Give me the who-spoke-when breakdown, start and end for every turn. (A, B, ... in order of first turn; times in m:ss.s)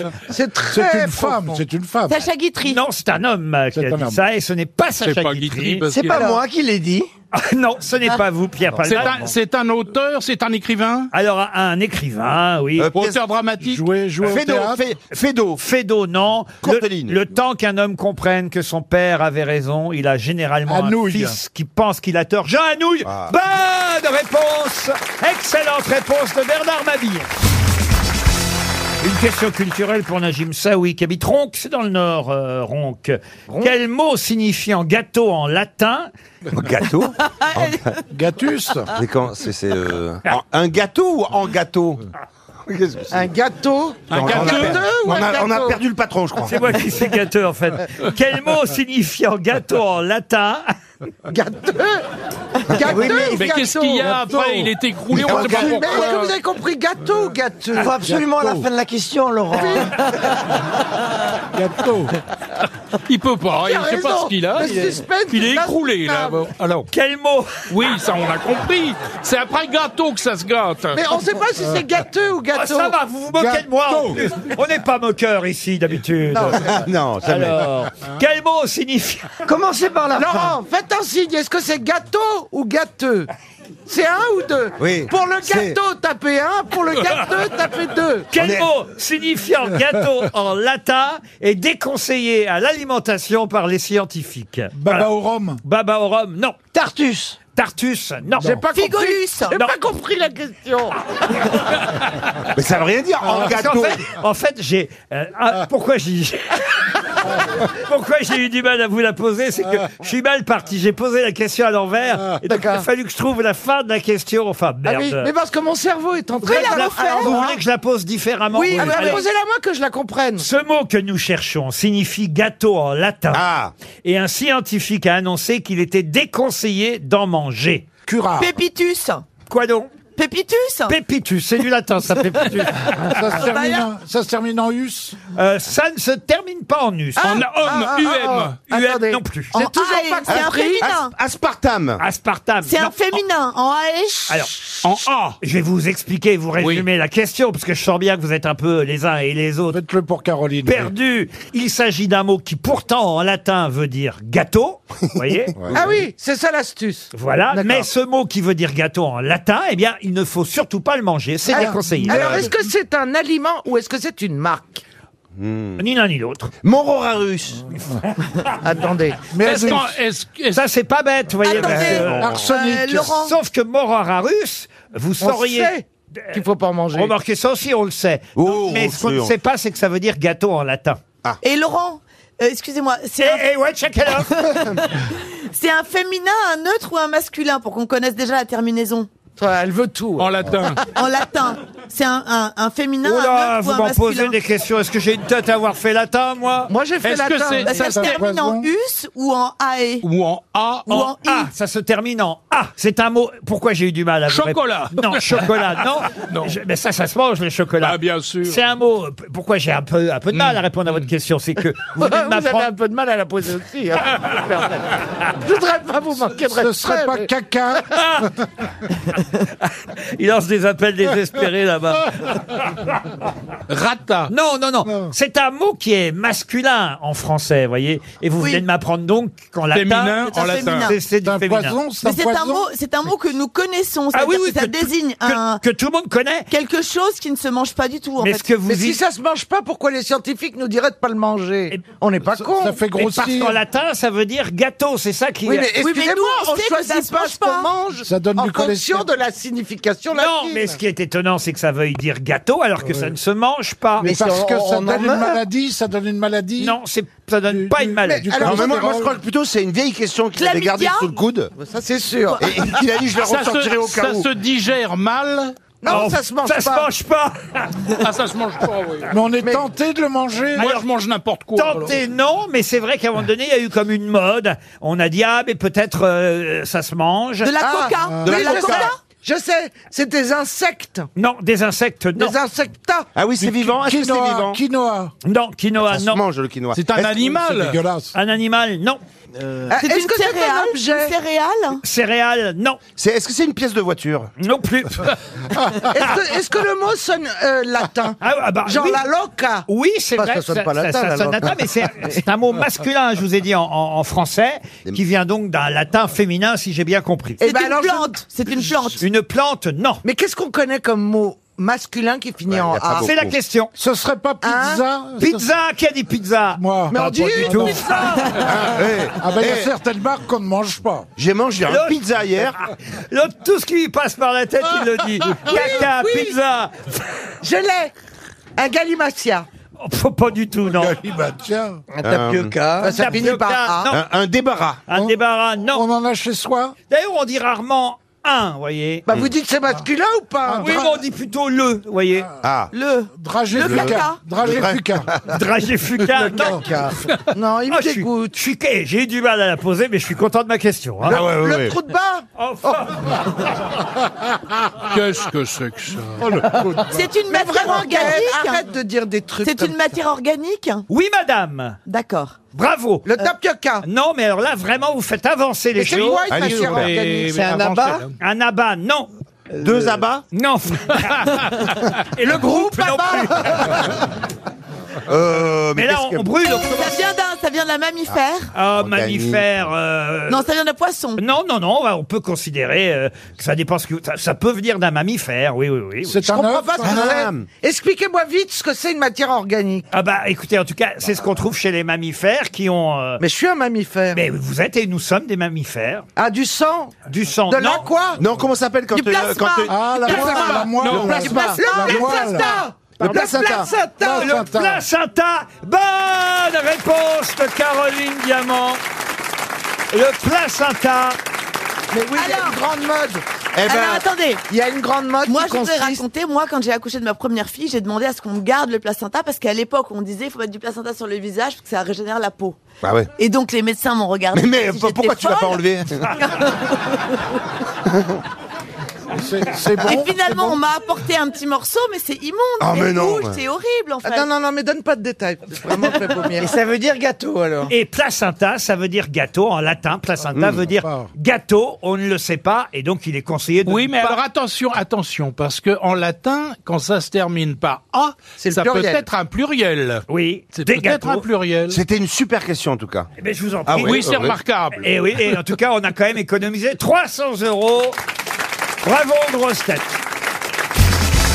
0:00.3-0:01.6 A
0:00.7-0:02.3 B
0:02.1-0:02.8 C
0:02.6-0:05.9 D
0:03.7-0:04.2 B
0:05.0-0:06.3 E
0:05.9-0:07.1 F
0:07.3-0:09.3 D
0:08.8-0:11.1 E
0:11.1-0:12.9 D
0:12.8-0:13.2 G
0:12.9-0:13.8 E
0:13.6-0:14.8 B
0:14.2-0:15.6 G
0:15.5-0:27.3 D
0:16.6-0:17.2 G
0:20.7-0:21.4 B
0:23.0-0:23.3 G
0:29.0-0:36.1 D
0:36.5-0:37.9 G
0:38.1-0:38.9 B
0:38.9-0:42.0 G
0:42.7-0:43.3 G
0:43.1-0:45.8 A
0:44.1-0:44.8 E
0:44.1-0:46.8 G
0:46.4-0:50.7 D
0:51.3-0:52.0 A
0:52.7-0:54.1 A
0:52.7-0:53.2 G
0:53.0-0:56.3 E
0:54.0-0:56.1 B
0:55.2-0:58.0 A
0:55.2-0:55.8 G
0:57.7-0:59.9 F
0:58.0-0:58.6 B
0:59.5-1:00.0 A
1:01.5-1:02.2 B
1:03.0-1:06.9 E
1:03.6-1:06.4 A
1:06.9-1:07.7 D
1:07.7-1:11.0 E
1:10.9-1:12.9 A
1:12.5-1:16.6 D
1:13.4-1:14.4 B
1:16.6-1:17.7 G
1:17.2-1:19.3 D
1:19.4-1:20.6 F
1:20.1-1:23.3 A
1:23.8-1:28.3 A
1:24.8-1:25.8 G
1:28.3-1:35.1 D
1:28.3-1:28.7 G
1:34.7-1:35.6 B
1:35.6-1:36.6 D
1:36.7-1:37.4 F
1:37.6-1:38.6 D
1:38.4-1:41.5 A
1:38.7-1:39.6 C
1:42.5-1:44.0 G
1:43.3-1:55.3 D
1:52.4-1:52.9 A
1:54.8-1:57.6 A
1:56.4-1:57.4 C
1:56.4-1:59.2 D
1:58.5-2:00.5 A
1:58.8-1:59.2 C
2:00.4-2:03.4 D
2:03.3-2:03.7 G
2:04.0-2:07.8 D
2:08.0-2:08.5 B
2:08.4-2:09.2 C
2:09.5-2:09.9 D
2:10.2-2:11.0 C
2:10.9-2:13.1 D
2:12.9-2:15.2 B
2:13.3-2:13.8 C
2:15.3-2:17.4 D
2:17.2-2:20.9 A
2:17.2-2:18.6 E
2:18.7-2:19.6 D
2:19.5-2:21.1 C
2:20.3-2:22.0 G
2:22.0-2:23.2 D
2:22.6-2:24.3 C
2:24.3-2:24.8 D
2:24.8-2:25.4 E
2:25.4-2:29.8 D
2:26.6-2:26.8 E
2:29.7-2:30.9 B
2:30.6-2:35.7 D
2:35.6-2:36.0 B
2:35.7-2:37.9 A
2:37.1-2:42.5 D
2:41.5-2:44.8 A
2:41.5-2:42.4 B
2:45.4-2:45.8 G
2:45.8-2:46.5 D
2:46.6-2:47.7 G
2:48.6-2:49.3 A
2:49.3-2:49.9 B
2:49.4-2:50.7 E
2:50.5-2:52.3 D
2:51.4-2:53.3 C
2:51.6-2:52.4 G
2:52.1-2:53.1 B
2:53.1-2:56.4 D
2:55.2-2:57.1 A
2:56.9-3:01.0 D
2:58.4-2:59.3 G
3:01.4-3:03.4 C
3:03.2-3:04.3 D
3:04.2-3:09.1 C
3:09.4-3:10.8 A
3:10.2-3:10.8 E
3:10.9-3:14.4 C
3:13.0-3:16.7 D
3:16.7-3:18.2 A
3:17.0-3:17.7 E
3:17.6-3:20.0 C
3:17.7-3:18.7 B
3:20.0-3:20.9 E
3:20.9-3:21.5 C
3:20.9-3:32.7 D
3:24.3-3:25.6 E
3:26.1-3:26.6 E
3:27.8-3:28.6 E
3:30.3-3:31.1 E
3:32.0-3:37.3 A
3:36.5-3:38.4 B
3:37.9-3:38.3 D
3:40.1-3:42.6 D
3:43.7-3:44.3 E
3:44.3-3:51.8 D
3:44.8-3:45.1 B
3:49.7-3:50.9 E
3:50.3-3:51.0 C
3:51.2-3:52.6 B
3:52.0-3:55.6 C
3:54.1-3:56.5 D
3:56.5-3:58.5 C
3:58.2-3:59.0 D
3:58.6-4:02.8 A
4:02.4-4:03.6 B
4:02.9-4:05.7 D
4:05.4-4:10.8 A
4:05.8-4:07.7 C
4:08.0-4:09.1 B
4:10.1-4:14.1 D
4:12.8-4:13.1 B
4:14.0-4:16.8 B
4:14.0-4:15.3 A
4:14.1-4:15.2 F
4:16.6-4:18.5 D
4:17.5-4:19.2 B
4:18.1-4:18.8 A
4:18.4-4:21.5 G
4:20.4-4:21.1 C
4:21.6-4:22.4 A
4:22.4-4:24.3 G
4:23.2-4:25.6 E
4:25.8-4:26.9 A
4:25.8-4:28.0 D
4:28.0-4:29.1 E
4:29.1-4:30.7 B
4:30.6-4:32.0 E
4:30.6-4:30.8 D
4:31.5-4:37.5 D
4:37.4-4:39.0 C
4:37.6-4:41.1 A
4:38.2-4:38.9 G
4:41.1-4:42.4 D
4:42.2-4:43.1 A
4:43.1-4:44.6 G
4:43.4-4:45.1 B
4:45.2-4:46.2 D
4:45.9-4:47.3 G
4:46.7-4:47.8 E
4:47.3-4:48.1 B
4:48.1-4:49.0 D
4:49.7-4:51.2 A
4:49.7-4:51.8 C
4:51.8-4:52.8 D
4:53.0-4:54.3 G
4:54.4-4:55.1 D
4:55.9-5:02.2 A
4:58.2-4:59.0 D
4:59.7-5:07.4 D
5:07.4-5:09.0 C
5:07.4-5:08.3 A
5:09.0-5:10.0 D
5:10.0-5:13.1 A
5:12.5-5:13.4 G
5:13.0-5:13.7 D
5:13.8-5:15.4 B
5:14.4-5:14.8 A
5:15.2-5:18.4 D
5:16.6-5:18.0 B
5:16.9-5:18.4 A
5:18.4-5:19.7 G
5:19.2-5:21.1 B
5:21.2-5:22.6 G
5:21.6-5:22.0 D
5:23.1-5:27.2 D
5:25.4-5:26.4 A
5:27.4-5:27.9 A
5:28.6-5:29.4 A
5:29.8-5:31.0 D
5:30.7-5:31.8 B
5:31.9-5:33.1 F
5:32.0-5:32.6 G
5:32.8-5:33.9 A
5:32.8-5:34.0 D
5:33.9-5:34.8 G
5:34.9-5:35.8 D
5:35.7-5:36.7 B
5:36.9-5:39.0 D
5:39.1-5:40.9 A
5:40.4-5:40.9 B
5:40.6-5:42.3 D
5:42.4-5:42.7 G
5:42.7-5:44.2 C
5:43.1-5:45.1 B
5:43.6-5:45.3 G
5:45.3-5:46.7 D
5:46.1-5:48.3 A
5:47.7-5:51.2 D
5:51.0-5:51.7 G
5:51.1-5:52.9 A
5:52.4-5:53.2 D
5:54.9-5:56.3 E
5:56.2-5:57.0 B
5:56.9-5:58.7 C
5:57.3-5:59.9 A
5:59.4-6:00.8 C
6:00.9-6:01.8 D
6:01.8-6:02.4 C
6:02.5-6:03.2 D
6:03.0-6:03.8 A
6:03.8-6:06.3 D
6:05.8-6:07.2 A
6:06.3-6:06.9 G
6:06.3-6:08.1 E
6:07.1-6:08.0 F
6:08.2-6:09.1 D
6:09.6-6:10.2 G
6:10.3-6:13.8 D
6:12.2-6:13.9 A
6:15.0-6:16.3 G
6:15.7-6:17.0 D
6:16.7-6:18.5 C
6:18.5-6:20.4 D
6:18.7-6:19.4 G
6:20.3-6:21.2 C
6:21.2-6:26.2 D
6:26.0-6:27.0 B
6:26.2-6:29.9 A
6:26.8-6:27.5 G
6:29.9-6:33.2 D
6:33.2-6:34.2 A
6:34.1-6:36.0 D
6:36.2-6:36.9 A
6:37.1-6:37.9 D
6:37.5-6:38.2 A
6:38.2-6:41.0 G
6:38.9-6:40.6 C
6:39.7-6:42.6 B
6:40.1-6:44.4 A
6:40.7-6:41.3 E
6:41.3-6:42.0 C
6:43.0-6:43.7 G
6:44.0-6:44.8 B
6:44.1-6:48.8 D
6:49.9-6:51.2 D
6:51.9-6:56.0 A
6:52.1-6:52.6 C
6:53.5-6:54.0 G
6:53.6-6:54.4 C
6:55.2-7:02.6 C
7:02.8-7:03.1 G
7:03.2-7:07.0 C
7:04.3-7:06.2 G
7:09.1-7:10.6 B
7:09.8-7:14.3 C
7:12.6-7:13.4 G
7:14.0-7:16.5 A
7:16.4-7:17.7 F
7:17.7-7:24.2 D
7:20.3-7:20.6 G
7:20.8-7:21.1 B
7:23.6-7:31.8 E
7:28.4-7:29.0 A
7:30.1-7:31.2 D
7:31.7-7:33.1 G
7:33.2-7:34.1 D
7:33.7-7:34.4 G
7:33.8-7:35.4 E
7:34.8-7:38.0 D
7:38.8-7:40.0 D